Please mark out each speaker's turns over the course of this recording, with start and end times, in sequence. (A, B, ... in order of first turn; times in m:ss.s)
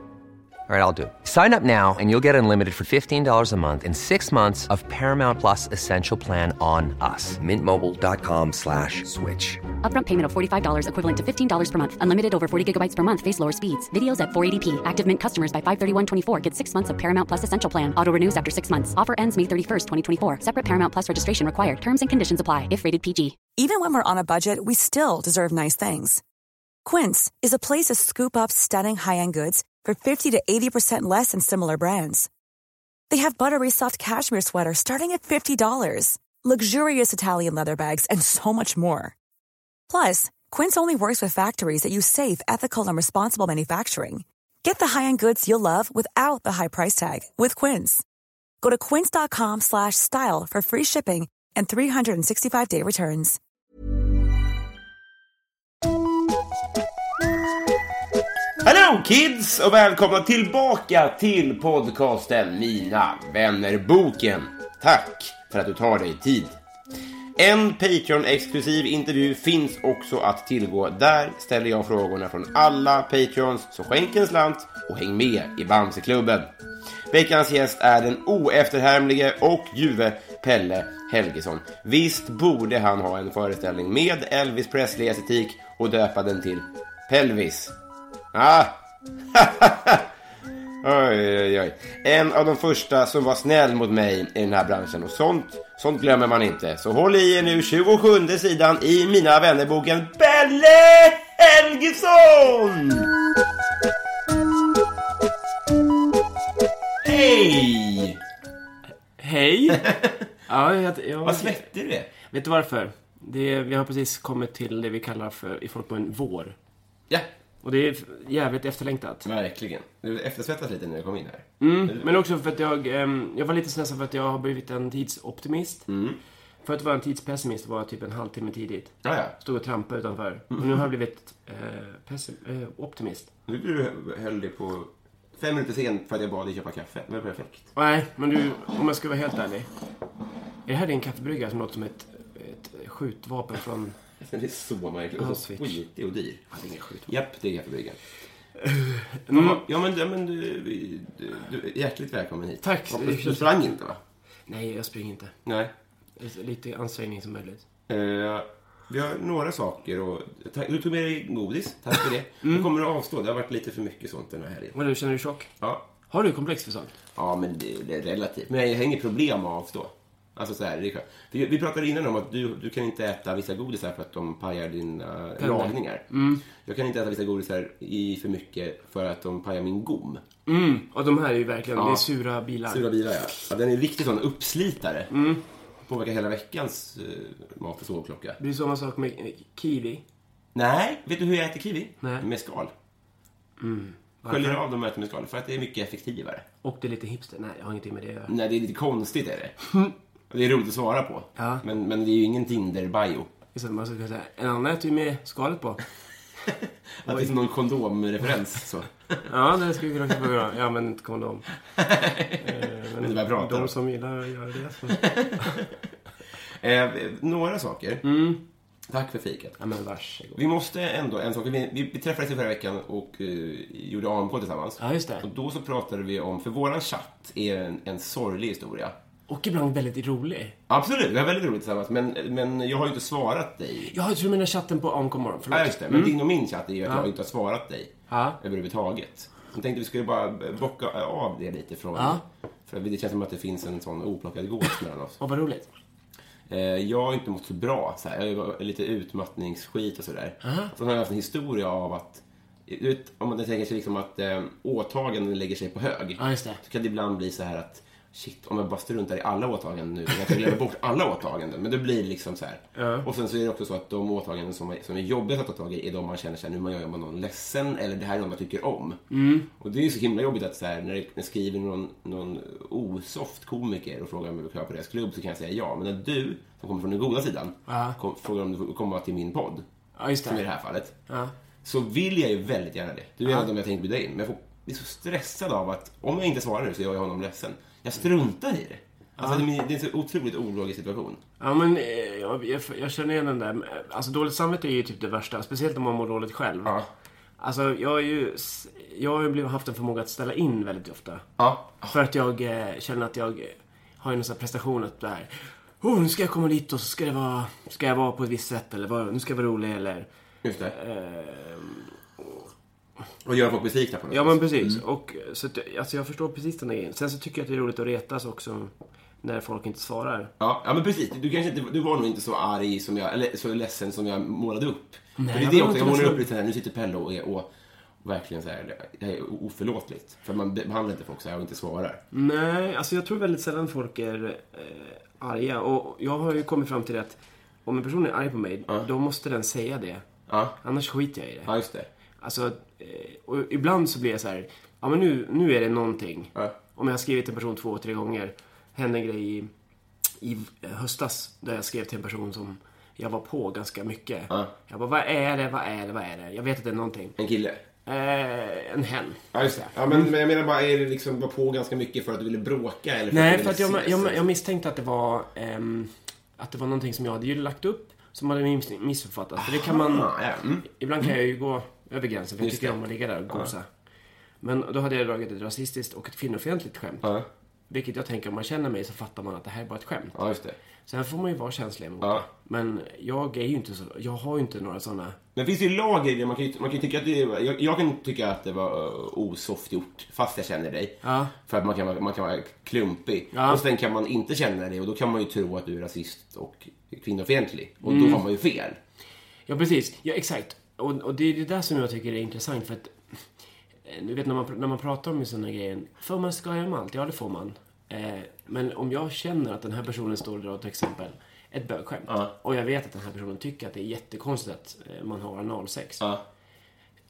0:00.7-0:09.6 A
0:09.8-0:23.4 B
0:23.6-0:26.2 C
0:26.8-0:32.3 C
0:33.1-0:39.1 C
0:39.9-0:48.0 C
0:48.6-0:53.4 C
0:58.6-1:06.5 D
1:07.4-1:16.5 D
1:17.1-1:27.7 D
1:28.3-1:28.8 D
1:29.3-1:30.0 D
1:30.8-1:43.1 D
1:47.0-1:48.2 D
1:49.2-1:49.9 E
1:49.7-1:50.2 D
1:50.5-1:51.6 E
1:51.2-1:52.1 D
1:52.2-1:56.6 E
1:57.6-1:59.3 E
1:59.2-2:02.2 D
2:01.6-2:05.9 E
2:05.9-2:06.2 D
2:06.6-2:13.3 E
2:09.0-2:09.4 D
2:13.5-2:17.7 D
2:17.7-2:19.7 E
2:20.6-2:24.0 E
2:24.2-2:26.4 D
2:25.2-2:25.8 E
2:26.5-2:27.1 E
2:27.0-2:28.0 D
2:28.6-2:29.6 E
2:29.3-2:34.0 D
2:32.6-2:33.5 E
2:34.5-2:35.3 E
2:35.4-2:35.7 D
2:36.2-2:37.6 E
2:37.9-2:44.8 D
2:44.7-2:45.5 E
2:45.6-2:45.8 D
2:46.1-2:47.0 E
2:47.2-3:00.2 D
2:55.4-2:56.4 E
3:00.4-3:02.8 E
3:01.8-3:02.0 D
3:02.7-3:05.1 D
3:05.1-3:05.4 E
3:05.8-3:08.4 D
3:08.4-3:10.0 E
3:10.5-3:12.7 D
3:13.6-3:14.6 E
3:14.3-3:16.4 D
3:16.6-3:18.3 E
3:18.3-3:19.6 D
3:20.3-3:23.3 D
3:21.4-3:21.6 E
3:23.5-3:25.8 E
3:26.5-3:29.2 D
3:27.0-3:27.3 E
3:29.2-3:31.4 E
3:31.8-3:32.4 D
3:32.4-3:35.6 E
3:33.0-3:33.7 D
3:34.9-3:35.7 D
3:36.6-3:38.1 D
3:38.0-3:38.4 E
3:38.9-3:39.6 D
3:39.6-3:40.4 E
3:40.4-3:48.9 D
3:44.8-3:45.2 E
3:49.3-3:50.6 E
3:50.7-3:53.9 D
3:53.9-3:56.2 E
3:55.5-4:05.2 D
3:58.1-3:58.4 E
4:02.0-4:02.2 E
4:05.2-4:05.7 E
4:06.5-4:29.0 D
4:10.4-4:10.7 E
4:16.2-4:16.6 E
4:22.8-4:23.1 E
4:29.1-4:29.5 E
4:29.6-4:39.6 D
4:37.7-4:38.0 E
4:40.0-4:40.4 E
4:40.2-4:41.0 D
4:41.1-4:41.3 E
4:41.6-4:51.2 D
4:49.2-4:49.4 E
4:51.4-4:56.8 E
4:57.4-5:01.2 E
5:01.4-5:01.9 D
5:01.9-5:10.1 E
5:10.4-5:10.7 D
5:10.7-5:12.4 E
5:13.2-5:14.8 D
5:14.1-5:20.3 E
5:20.4-5:27.5 D
5:25.2-5:26.2 E
5:28.0-5:32.0 D
5:32.1-5:40.0 E
5:40.3-5:40.6 D
5:40.6-5:41.5 E
5:41.5-5:41.9 D
5:42.2-5:49.5 E
5:50.2-5:57.2 E
5:57.2-5:57.6 D
5:57.8-6:00.1 E
5:59.3-6:04.2 D
6:03.1-6:10.1 E
6:09.4-6:10.6 D
6:10.6-6:13.7 E
6:12.4-6:12.8 D
6:14.4-6:17.1 E
6:17.7-6:20.2 E
6:20.1-6:20.6 D
6:20.9-6:25.2 E
6:25.3-6:38.8 D
6:31.0-6:31.3 E
6:33.3-6:33.6 E
6:37.8-6:38.2 E
6:39.5-6:42.9 E
6:43.8-6:56.0 E
6:52.1-6:52.3 D